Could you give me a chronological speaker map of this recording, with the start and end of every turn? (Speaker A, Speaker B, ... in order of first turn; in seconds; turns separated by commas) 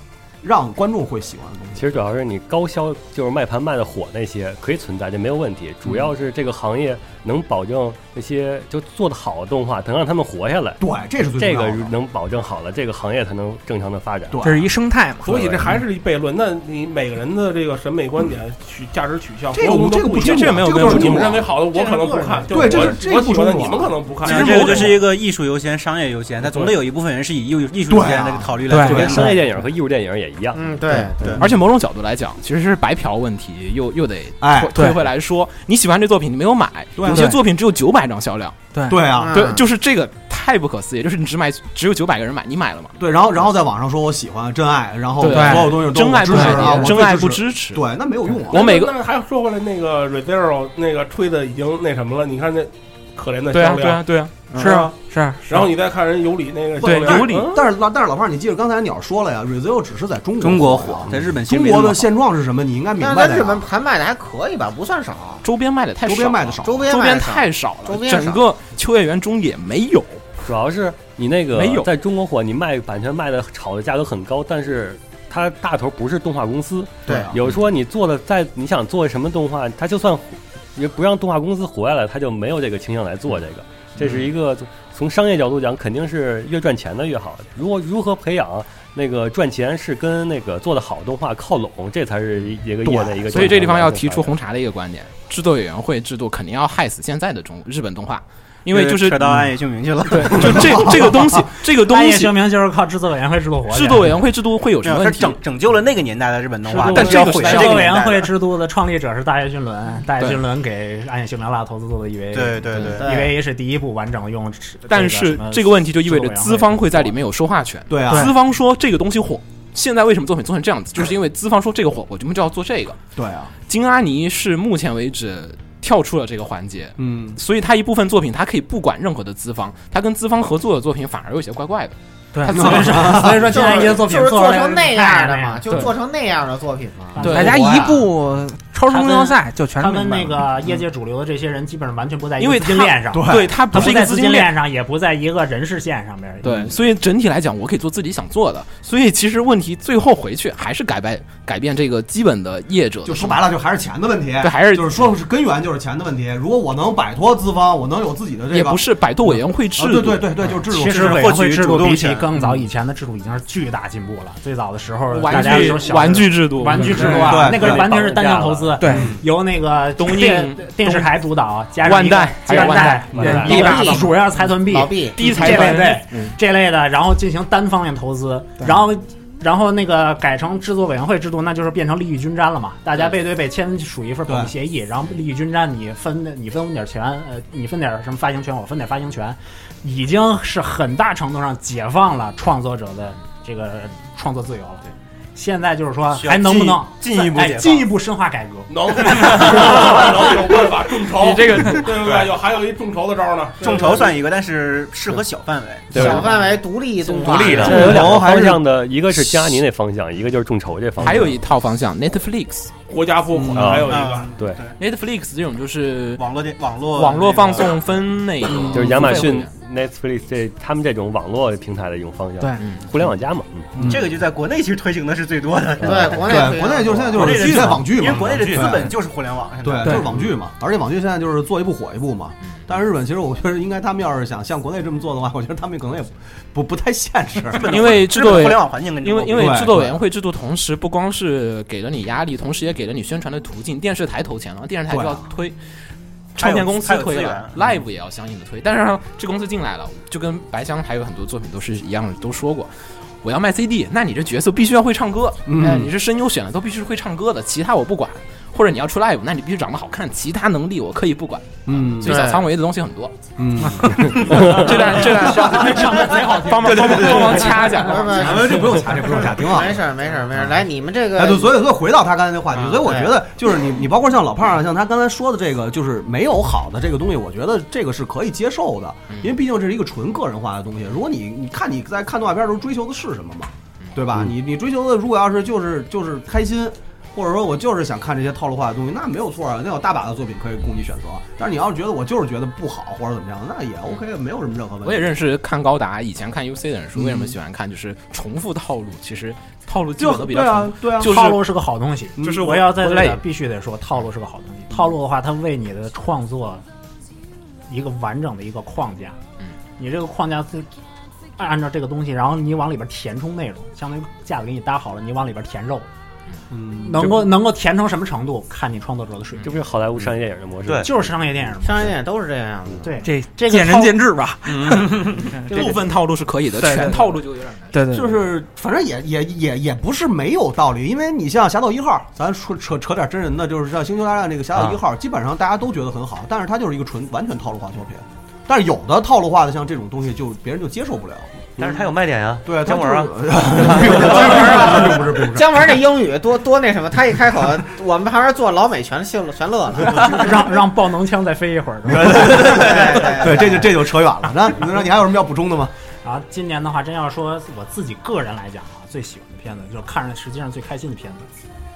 Speaker A: 0.4-2.0, Speaker B: 1.7-10.8, Speaker A: 10.8-11.9, Speaker B: 11.3-14.5, Speaker A: 14.3-14.7, Speaker C: 14.4-15.8, Speaker D: 15.2-24.9, Speaker A: 19.5-21.5, Speaker E: 20.1-21.4, Speaker A: 22.5-25.0, Speaker F: 24.2-29.3, Speaker A: 27.9-29.3, Speaker C: 28.7-29.2, Speaker B: 28.8-30.8, Speaker G: 30.5-31.3, Speaker A: 30.9-31.4, Speaker E: 31.4-38.6, Speaker A: 34.4-34.8, Speaker A: 37.0-37.4, Speaker C: 37.1-37.4, Speaker C: 38.7-39.0, Speaker A: 38.9-39.5, Speaker G: 39.2-39.6, Speaker E: 39.3-43.0, Speaker A: 43.0-48.7, Speaker E: 45.2-47.9, Speaker C: 45.2-46.9, Speaker D: 48.5-54.1, Speaker E: 48.5-49.0, Speaker E: 53.5-54.6, Speaker A: 54.5-54.9, Speaker C: 54.5-55.7, Speaker D: 55.5-57.6, Speaker A: 56.8-63.6, Speaker E: 56.8-57.5, Speaker F: 60.4-62.1, Speaker G: 63.0-65.4, Speaker E: 65.4-70.3, Speaker A: 66.0-66.9, Speaker G: 66.6-68.4, Speaker B: 70.5-94.3, Speaker E: 71.5-71.9, Speaker E: 93.3-99.3, Speaker F: 98.7-100.9, Speaker E: 100.1-102.4, Speaker A: 100.3-101.4, Speaker H: 101.8-104.2, Speaker E: 103.7-105.4, Speaker F: 104.8-108.3, Speaker H: 106.7-117.1, Speaker E: 106.8-108.0, Speaker E: 110.2-110.4, Speaker F: 112.3-113.2, Speaker E: 112.7-113.0, Speaker E: 114.9-123.0, Speaker A: 117.9-118.3, Speaker A: 123.2-123.5, Speaker E: 123.7-131.9, Speaker A: 127.0-127.4, Speaker C: 132.3-132.7, Speaker H: 132.5-135.8, Speaker A: 132.6-133.4, Speaker G: 133.4-137.2, Speaker H: 137.2-137.9, Speaker E: 137.2-137.6, Speaker C: 137.2-140.5, Speaker A: 137.5-137.8, Speaker H: 138.9-146.7, Speaker E: 142.4-144.5, Speaker A: 143.1-143.6, Speaker E: 146.4-153.4, Speaker A: 153.0-161.3, Speaker E: 154.4-155.1, Speaker E: 158.5-160.5, Speaker H: 160.7-194.8, Speaker F: 160.8-162.3, Speaker E: 165.1-167.5, Speaker A: 167.1-167.9, Speaker B: 167.3-168.8, Speaker C: 168.8-169.2, Speaker A: 168.9-169.2, Speaker E: 170.0-171.1, Speaker E: 171.8-173.9, Speaker B: 173.1-173.9, Speaker C: 173.2-173.7, Speaker G: 173.4-175.2, Speaker E: 175.2-176.3, Speaker A: 184.3-184.5, Speaker H: 195.3-199.5, Speaker F: 196.1-197.9, Speaker D: 198.7-204.1, Speaker E: 201.1-201.9, Speaker F: 203.6-206.1, Speaker B: 205.9-206.2, Speaker G: 205.9-208.1, Speaker B: 207.1-211.4, Speaker I: 207.3-207.9, Speaker A: 207.3-209.3, Speaker E: 211.0-212.7, Speaker D: 212.9-214.3, Speaker A: 213.3-213.9, Speaker B: 213.5-214.6, Speaker F: 213.8-214.8, Speaker E: 214.8-216.2, Speaker F: 216.2-217.9, Speaker E: 216.9-219.5, Speaker B: 218.7-223.7, Speaker E: 222.6-222.8, Speaker A: 223.8-224.1, Speaker F: 223.8-226.5, Speaker G: 225.8-227.4, Speaker A: 226.0-228.9, Speaker F: 227.1-230.1, Speaker I: 228.0-228.8, Speaker A: 229.6-238.0, Speaker F: 237.5-239.6, Speaker E: 237.6-245.6, Speaker A: 239.2-240.0, Speaker A: 244.9-245.3, Speaker E: 246.3-252.7, Speaker F: 246.4-247.6, Speaker E: 253.2-263.1, Speaker A: 255.4-255.9, Speaker A: 261.6-262.2, Speaker G: 262.0-262.4, Speaker A: 263.4-265.9, Speaker E: 264.1-268.4, Speaker B: 264.3-264.6, Speaker H: 265.0-267.5, Speaker A: 266.6-267.5, Speaker G: 267.7-271.5, Speaker A: 268.1-269.8, Speaker A: 271.1-295.1, Speaker G: 272.6-273.1, Speaker E: 294.8-301.4, Speaker A: 296.9-297.3, Speaker A: 300.0-301.4, Speaker H: 301.0-306.6, Speaker A: 302.2-302.7, Speaker E: 302.2-303.2, Speaker H: 307.7-309.2, Speaker H: 309.8-310.7, Speaker H: 311.4-315.9, Speaker A: 316.5-317.0, Speaker H: 316.8-319.6, Speaker B: 319.4-320.9, Speaker I: 320.6-320.9, Speaker H: 320.8-321.9, Speaker G: 321.6-322.9, Speaker H: 322.8-324.1, Speaker C: 323.0-325.8, Speaker I: 324.5-324.9, Speaker E: 325.5-327.8, Speaker C: 326.6-327.2, Speaker C: 327.7-328.2, Speaker A: 327.9-341.8, Speaker I: 341.6-344.6, Speaker A: 342.4-345.6, Speaker G: 344.1-350.2, Speaker H: 349.8-352.9, Speaker A: 351.9-355.7, Speaker G: 352.4-353.6, Speaker H: 356.0-361.3